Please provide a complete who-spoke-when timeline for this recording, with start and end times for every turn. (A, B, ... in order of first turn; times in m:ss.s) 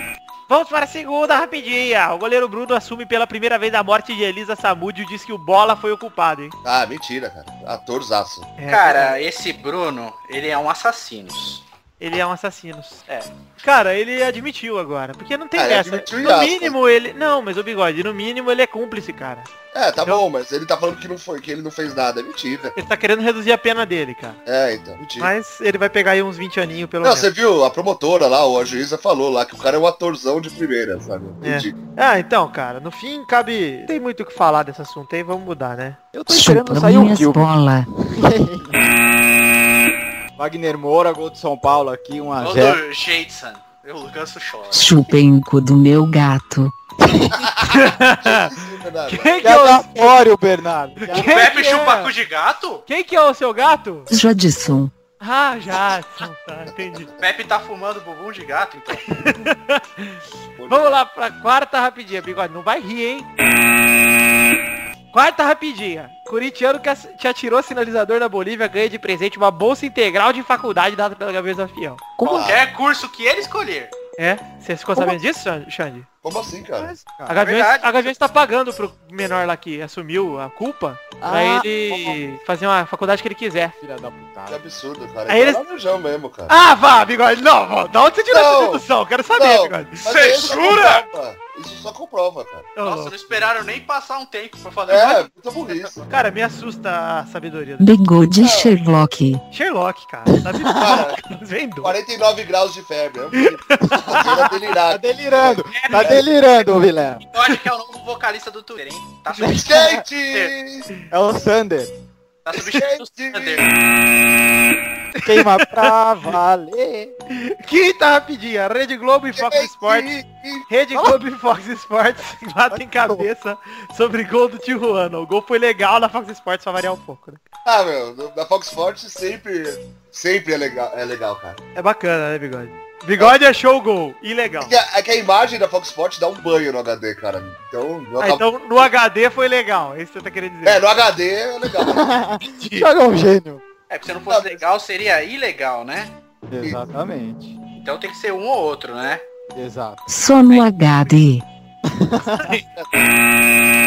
0:00.5-0:06.5 A
0:06.6-0:08.5 B
0:08.6-0:09.1 A
0:08.7-0:11.6 C
0:12.0-0:13.0 A
0:13.6-0:19.5 A
0:15.6-0:16.9 B
0:19.7-0:22.7 B
0:22.8-0:24.4 A
0:24.4-0:25.3 B
0:25.2-0:27.3 A
0:27.0-0:31.7 B
0:31.4-0:36.0 A
0:36.1-0:37.4 D
0:36.3-0:37.9 E
0:38.0-0:38.8 D
0:40.4-0:42.8 D
0:42.4-0:44.9 C
0:44.7-0:46.7 E
0:47.0-0:47.4 D
0:47.3-0:49.5 B
0:47.6-0:48.5 A
0:49.1-0:50.2 A
0:49.4-0:51.3 D
0:51.0-0:52.1 A
0:51.1-0:52.8 C
0:52.9-0:54.1 A
0:54.1-0:54.9 E
0:55.2-0:57.1 A
0:57.2-0:59.0 C
0:59.1-1:03.3 A
1:00.6-1:01.0 B
1:05.1-1:12.2 A
1:12.2-1:13.9 C
1:12.2-1:12.6 B
1:14.2-1:16.1 A
1:16.2-1:16.9 B
1:16.8-1:17.3 D
1:17.3-1:23.7 A
1:17.4-1:18.1 C
1:21.2-1:22.2 D
1:23.8-1:24.6 D
1:24.5-1:26.5 B
1:25.3-1:25.6 A
1:26.5-1:31.0 A
1:28.3-1:32.7 B
1:30.0-1:30.8 C
1:32.8-1:33.5 A
1:32.8-1:35.9 C
1:34.9-1:36.0 B
1:36.1-1:37.9 A
1:37.8-1:39.4 E
1:38.4-1:38.7 B
1:39.5-1:42.0 A
1:40.6-1:41.0 D
1:40.8-1:41.2 B
1:41.8-1:46.3 B
1:43.3-1:44.5 A
1:44.1-1:47.2 D
1:45.8-1:46.1 A
1:47.3-1:50.5 C
1:49.3-1:50.0 D
1:49.6-1:50.9 B
1:51.1-1:51.9 D
1:52.4-1:53.7 C
1:52.5-1:53.7 B
1:55.2-1:57.1 D
1:55.2-1:55.9 A
1:57.3-2:00.1 A
1:59.3-2:00.7 B
2:00.7-2:07.4 A
2:02.7-2:03.3 D
2:07.6-2:11.6 B
2:11.8-2:14.8 A
2:14.6-2:18.4 B
2:18.2-2:20.8 A
2:20.6-2:22.1 B
2:21.8-2:23.6 D
2:22.4-2:22.9 A
2:23.9-2:26.1 C
2:24.3-2:24.6 B
2:26.5-2:27.6 D
2:27.8-2:29.2 C
2:29.5-2:30.0 D
2:30.1-2:31.4 E
2:31.9-2:32.5 D